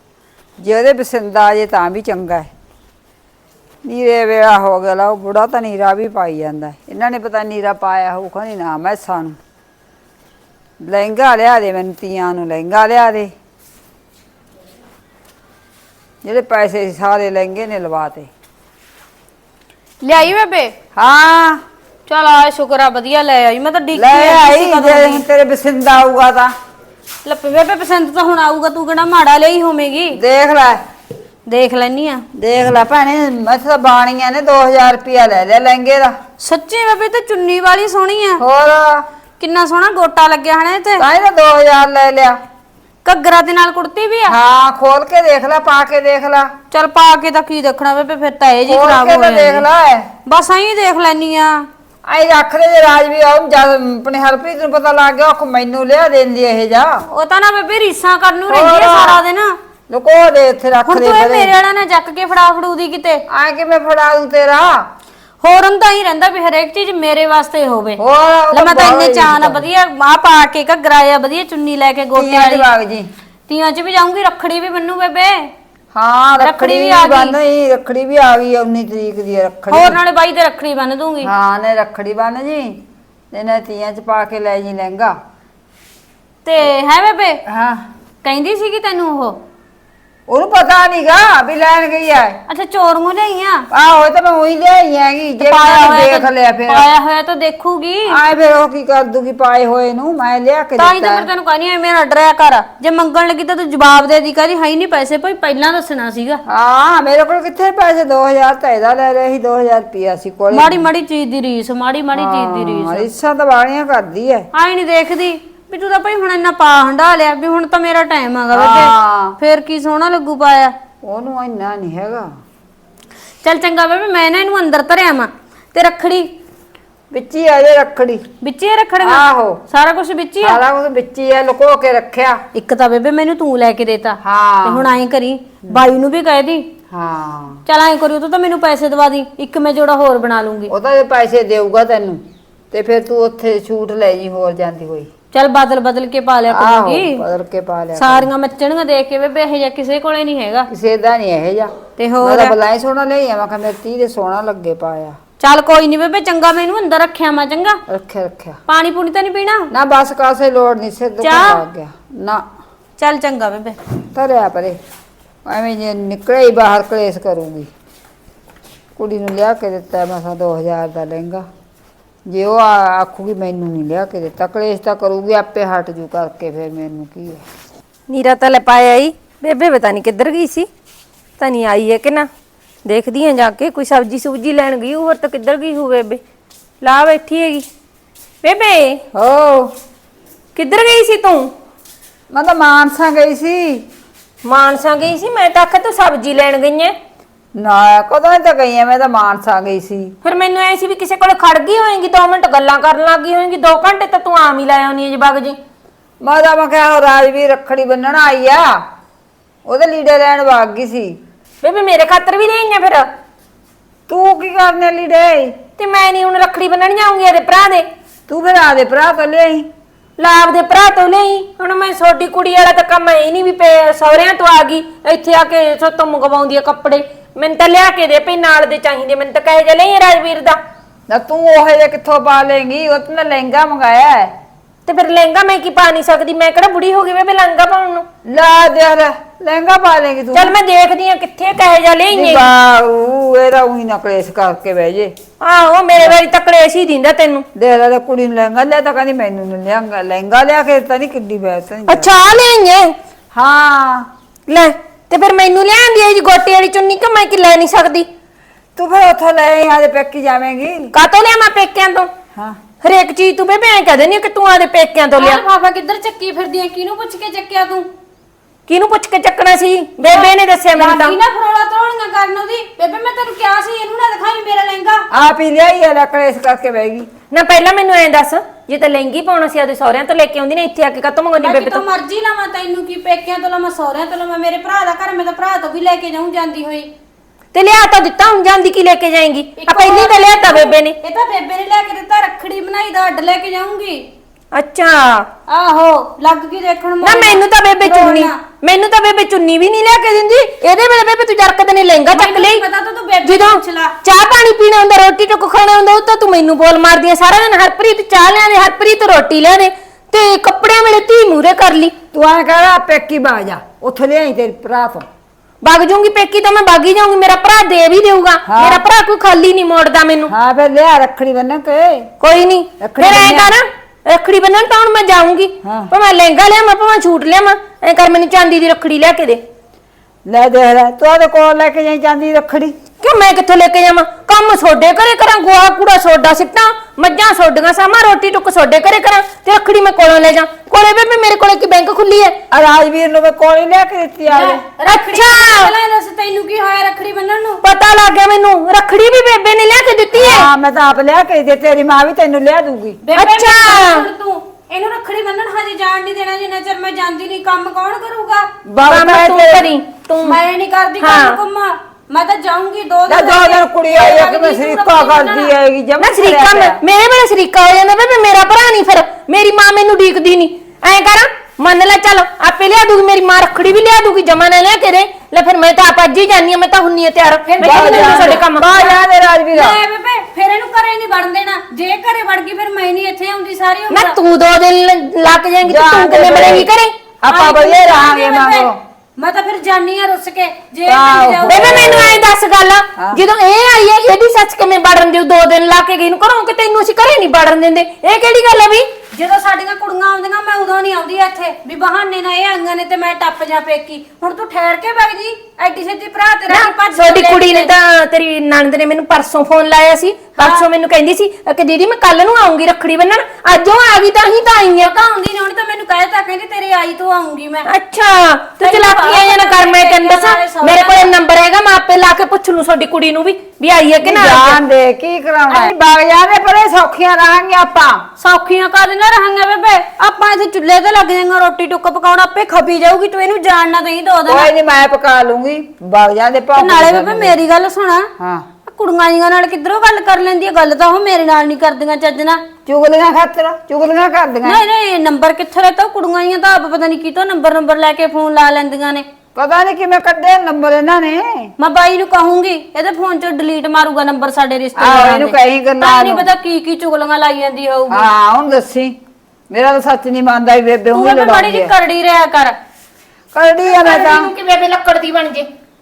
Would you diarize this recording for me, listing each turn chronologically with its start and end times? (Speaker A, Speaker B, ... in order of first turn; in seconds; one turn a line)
Speaker A: 0.6-2.5
Speaker A: 3.9-9.4
Speaker A: 10.8-13.3
Speaker A: 16.2-18.3
Speaker B: 20.0-20.7
Speaker A: 21.0-21.6
Speaker B: 22.1-25.2
Speaker A: 23.9-26.5
Speaker B: 27.2-30.2
Speaker A: 30.1-30.8
Speaker B: 31.5-32.2
Speaker A: 32.4-36.1
Speaker B: 36.4-38.4
Speaker A: 38.4-39.0
Speaker B: 39.4-41.0
Speaker A: 41.0-42.4
Speaker B: 43.0-44.4
Speaker A: 44.3-46.5
Speaker B: 46.7-49.7
Speaker A: 48.7-50.1
Speaker B: 50.3-51.7
Speaker A: 52.0-57.0
Speaker B: 57.1-59.5
Speaker A: 58.5-59.2
Speaker A: 59.9-61.5
Speaker B: 60.9-63.2
Speaker A: 63.3-64.9
Speaker B: 65.4-68.0
Speaker A: 68.0-69.7
Speaker B: 68.5-72.7
Speaker A: 72.2-73.1
Speaker B: 73.5-75.5
Speaker A: 75.9-80.0
Speaker B: 76.4-77.3
Speaker B: 79.7-81.3
Speaker A: 81.2-82.8
Speaker A: 83.3-85.2
Speaker B: 86.5-87.4
Speaker A: 87.5-87.8
Speaker B: 88.2-89.4
Speaker A: 90.3-92.4
Speaker B: 92.5-93.7
Speaker A: 93.7-96.9
Speaker B: 95.4-98.2
Speaker A: 98.1-101.3
Speaker B: 100.8-106.4
Speaker A: 106.5-110.9
Speaker B: 110.5-113.1
Speaker A: 112.2-114.5
Speaker B: 114.5-120.7
Speaker A: 118.5-119.4
Speaker A: 121.0-122.3
Speaker B: 123.4-126.3
Speaker A: 127.1-128.2
Speaker B: 128.4-130.6
Speaker A: 129.0-129.6
Speaker A: 130.4-132.4
Speaker B: 132.5-136.7
Speaker A: 134.2-134.9
Speaker A: 136.9-137.6
Speaker B: 137.7-140.7
Speaker A: 140.7-145.1
Speaker B: 145.3-147.2
Speaker A: 146.5-148.3
Speaker B: 148.0-150.7
Speaker A: 150.7-155.2
Speaker B: 152.0-152.6
Speaker B: 155.4-157.8
Speaker A: 157.9-158.6
Speaker B: 158.7-159.7
Speaker A: 159.7-162.4
Speaker B: 161.2-161.6
Speaker B: 163.0-163.8
Speaker A: 164.1-164.8
Speaker A: 165.5-167.7
Speaker A: 169.0-171.5
Speaker A: 172.3-177.4
Speaker C: 178.1-180.7
Speaker C: 181.4-182.3
Speaker C: 182.9-186.2
Speaker C: 186.8-187.7
Speaker C: 188.4-189.0
Speaker A: 189.1-189.7
Speaker C: 190.6-191.5
Speaker A: 192.3-193.8
Speaker C: 194.4-196.9
Speaker A: 197.6-200.2
Speaker C: 200.2-205.6
Speaker A: 206.2-208.8
Speaker A: 209.7-211.2
Speaker C: 211.6-213.1
Speaker A: 214.1-215.5
Speaker C: 215.8-217.8
Speaker A: 218.3-219.7
Speaker C: 220.2-230.6
Speaker A: 231.1-234.3
Speaker C: 234.9-238.1
Speaker A: 238.2-240.5
Speaker C: 240.3-242.5
Speaker A: 242.1-245.1
Speaker C: 245.4-247.4
Speaker A: 247.6-252.1
Speaker C: 251.9-252.9
Speaker A: 253.3-254.1
Speaker C: 254.5-258.1
Speaker A: 258.8-260.9
Speaker C: 260.9-262.1
Speaker C: 262.8-265.4
Speaker B: 265.2-267.9
Speaker C: 268.7-271.2
Speaker B: 270.1-275.0
Speaker A: 275.1-277.1
Speaker C: 277.3-281.8
Speaker B: 281.4-286.9
Speaker C: 287.5-290.9
Speaker B: 289.6-294.0
Speaker C: 294.5-295.3
Speaker B: 295.5-298.4
Speaker C: 297.0-302.6
Speaker B: 302.1-303.9
Speaker C: 303.2-311.9
Speaker A: 312.1-315.1
Speaker C: 315.6-320.3
Speaker A: 318.5-318.8
Speaker A: 320.3-322.1
Speaker C: 322.2-329.4
Speaker A: 322.8-323.6
Speaker A: 325.6-325.9
Speaker A: 330.3-332.8
Speaker C: 333.0-342.4
Speaker A: 342.5-344.6
Speaker B: 344.3-347.6
Speaker C: 344.9-345.7
Speaker C: 347.6-350.5
Speaker A: 350.1-353.0
Speaker B: 353.0-358.5
Speaker C: 353.1-354.1
Speaker A: 358.7-359.7
Speaker C: 358.9-360.4
Speaker B: 360.2-365.5
Speaker C: 361.0-361.4
Speaker A: 363.1-366.8
Speaker C: 366.0-378.8
Speaker B: 377.6-384.2
Speaker A: 377.6-379.8
Speaker C: 383.9-386.9
Speaker A: 385.6-386.7
Speaker A: 387.2-388.8
Speaker B: 387.3-392.1
Speaker A: 390.9-392.2
Speaker C: 391.5-398.9
Speaker A: 393.0-393.2
Speaker B: 399.1-407.7
Speaker C: 406.5-414.9
Speaker B: 410.4-410.7
Speaker B: 414.8-417.7
Speaker C: 417.7-424.6
Speaker B: 418.6-421.1
Speaker A: 424.0-428.0
Speaker B: 428.2-434.5
Speaker A: 434.3-437.4
Speaker B: 436.6-438.1
Speaker A: 438.2-438.4
Speaker B: 438.7-442.4
Speaker A: 442.7-444.6
Speaker B: 444.4-449.1
Speaker A: 449.4-451.5
Speaker B: 451.6-458.1
Speaker A: 454.8-456.3
Speaker A: 457.9-459.0
Speaker A: 459.5-461.7
Speaker B: 460.9-462.6
Speaker A: 463.3-464.3
Speaker C: 463.7-465.5